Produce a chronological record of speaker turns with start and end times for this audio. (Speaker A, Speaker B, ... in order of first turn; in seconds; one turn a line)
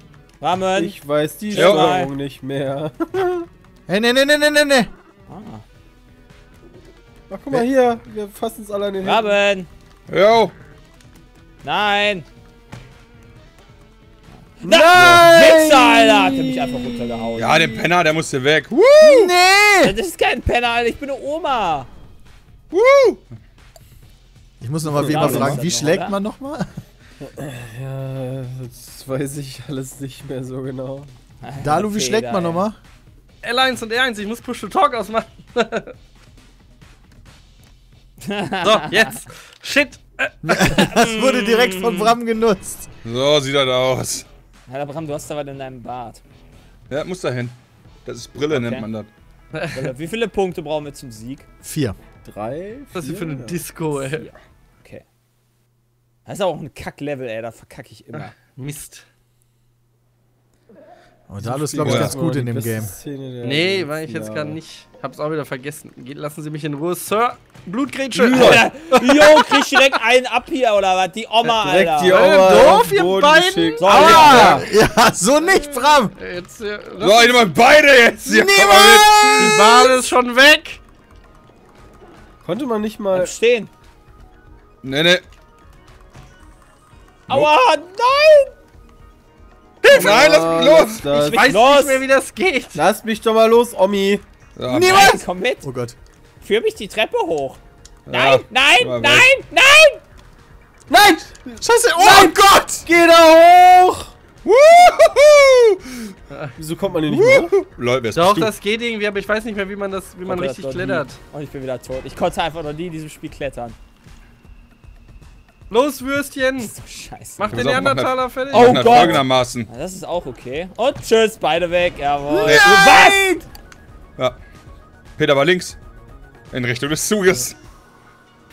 Speaker A: 0.4-1.0
Speaker B: 0.8-3.5
Speaker A: 1.5-2.1
Speaker C: 1.5-1.9
Speaker D: 3.9-4.9
Speaker A: 5.3-5.6
Speaker B: 7.3-9.3
Speaker A: 9.0-9.7
Speaker C: 10.1-10.5
Speaker A: 11.6-12.3
Speaker A: 14.6-17.8
Speaker B: 14.6-17.3
Speaker C: 14.9-15.3
Speaker C: 17.4-19.3
Speaker D: 19.0-20.0
Speaker A: 19.8-21.9
Speaker C: 22.7-23.2
Speaker D: 24.6-26.7
Speaker B: 24.9-25.7
Speaker A: 25.0-26.2
Speaker B: 27.2-31.1
Speaker A: 31.4-32.6
Speaker D: 31.6-32.8
Speaker E: 33.4-35.9
Speaker A: 38.2-39.2
Speaker E: 38.6-40.4
Speaker D: 40.4-42.9
Speaker A: 40.7-41.5
Speaker E: 41.6-42.1
Speaker C: 43.0-44.3
Speaker A: 44.7-46.2
Speaker C: 46.9-49.1
Speaker A: 48.5-48.9
Speaker E: 49.5-49.9
Speaker A: 49.7-51.5
Speaker D: 51.6-52.0
Speaker B: 52.2-53.6
Speaker E: 52.9-54.3
Speaker A: 56.3-58.3
Speaker E: 58.1-59.0
Speaker D: 61.3-62.9
Speaker B: 61.4-64.6
Speaker C: 61.8-62.2
Speaker E: 63.4-69.8
Speaker A: 68.2-72.2
Speaker B: 68.3-68.6
Speaker B: 71.6-74.7
Speaker E: 72.0-74.6
Speaker A: 73.8-74.7
Speaker D: 74.3-76.1
Speaker E: 76.1-77.4
Speaker C: 77.0-79.5
Speaker D: 78.2-80.1
Speaker E: 79.3-80.8
Speaker B: 82.4-83.3
Speaker A: 83.1-83.7
Speaker C: 84.8-85.2
Speaker A: 87.3-88.5
Speaker E: 89.8-90.5
Speaker C: 89.9-91.1
Speaker B: 89.9-91.5
Speaker E: 91.1-92.8
Speaker A: 91.3-92.0
Speaker B: 92.8-94.2
Speaker C: 94.6-95.1
Speaker D: 94.7-96.0
Speaker A: 94.8-95.7
Speaker A: 96.4-97.6
Speaker C: 98.1-99.3
Speaker A: 98.1-100.0
Speaker B: 100.9-104.1
Speaker D: 101.6-102.9
Speaker C: 104.4-106.1
Speaker E: 106.3-106.5
Speaker B: 106.6-107.5
Speaker C: 107.1-108.5
Speaker E: 108.2-111.2
Speaker A: 110.3-113.8
Speaker E: 115.7-116.7
Speaker A: 116.6-117.6
Speaker E: 117.4-119.2
Speaker C: 117.5-119.7
Speaker A: 118.5-123.2
Speaker D: 122.4-123.5
Speaker C: 122.4-122.8
Speaker C: 125.2-125.8
Speaker C: 126.5-127.6